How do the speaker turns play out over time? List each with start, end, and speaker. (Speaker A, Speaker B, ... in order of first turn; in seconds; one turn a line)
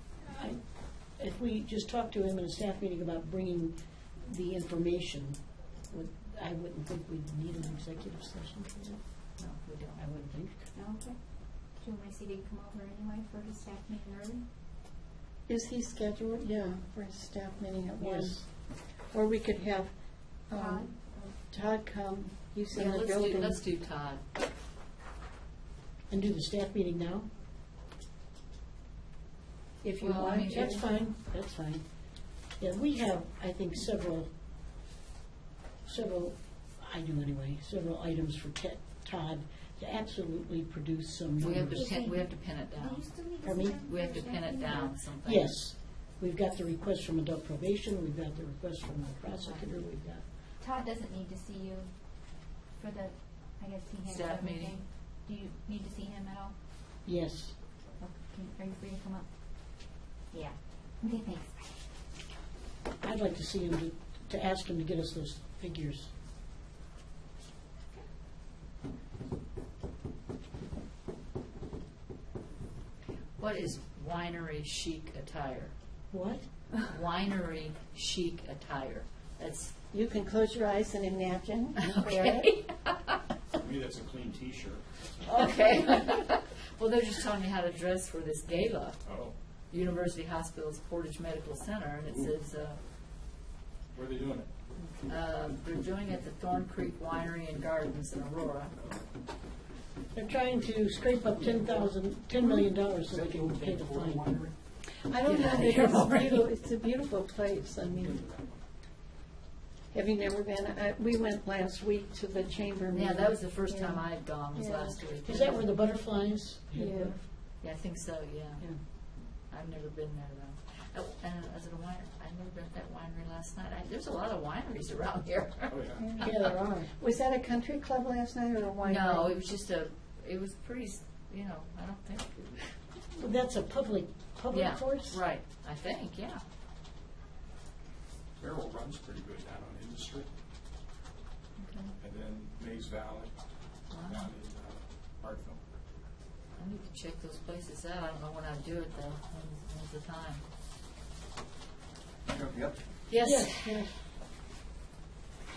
Speaker A: 0.2-0.6
Speaker A: 1.2-5.4
Speaker A: 5.9-9.0
Speaker B: 9.4-10.3
Speaker A: 10.0-10.7
Speaker C: 10.7-11.2
Speaker C: 11.8-14.4
Speaker D: 15.5-18.4
Speaker A: 18.0-18.5
Speaker D: 19.0-19.9
Speaker D: 20.5-20.9
Speaker C: 20.5-21.4
Speaker D: 21.5-23.6
Speaker B: 22.7-24.2
Speaker A: 26.1-27.3
Speaker A: 29.8-31.8
Speaker D: 30.0-30.8
Speaker B: 30.0-30.9
Speaker A: 32.6-34.3
Speaker A: 35.9-41.9
Speaker B: 41.4-43.0
Speaker C: 41.7-45.0
Speaker A: 43.4-43.8
Speaker B: 43.9-45.5
Speaker A: 45.2-50.2
Speaker C: 50.6-51.9
Speaker C: 52.8-56.6
Speaker B: 54.1-54.8
Speaker A: 57.1-57.5
Speaker C: 58.0-59.3
Speaker C: 60.3-61.8
Speaker A: 63.0-66.1
Speaker B: 73.4-75.7
Speaker A: 76.1-76.5
Speaker B: 76.9-79.7
Speaker D: 79.9-82.5
Speaker B: 81.8-83.2
Speaker E: 83.6-85.5
Speaker B: 85.2-89.0
Speaker E: 89.0-89.3
Speaker B: 89.7-92.8
Speaker E: 92.0-92.3
Speaker E: 93.9-94.5
Speaker B: 95.0-98.8
Speaker A: 100.1-104.4
Speaker E: 103.1-104.5
Speaker D: 105.0-108.2
Speaker B: 105.2-106.5
Speaker E: 107.8-108.6
Speaker D: 109.9-113.3
Speaker B: 112.9-115.7
Speaker C: 113.7-114.0
Speaker C: 114.5-115.0
Speaker A: 115.2-117.2
Speaker C: 116.8-117.1
Speaker B: 117.6-118.7
Speaker B: 119.5-126.4
Speaker E: 125.7-126.2
Speaker A: 126.2-126.9
Speaker D: 127.0-129.3
Speaker B: 128.8-132.6
Speaker A: 133.2-135.2
Speaker B: 134.5-136.4
Speaker E: 138.4-140.3
Speaker B: 141.6-141.9
Speaker E: 142.0-143.3
Speaker B: 143.9-144.3
Speaker E: 144.0-145.6
Speaker B: 146.6-150.4
Speaker E: 152.3-152.8
Speaker B: 153.1-153.7
Speaker A: 153.2-154.0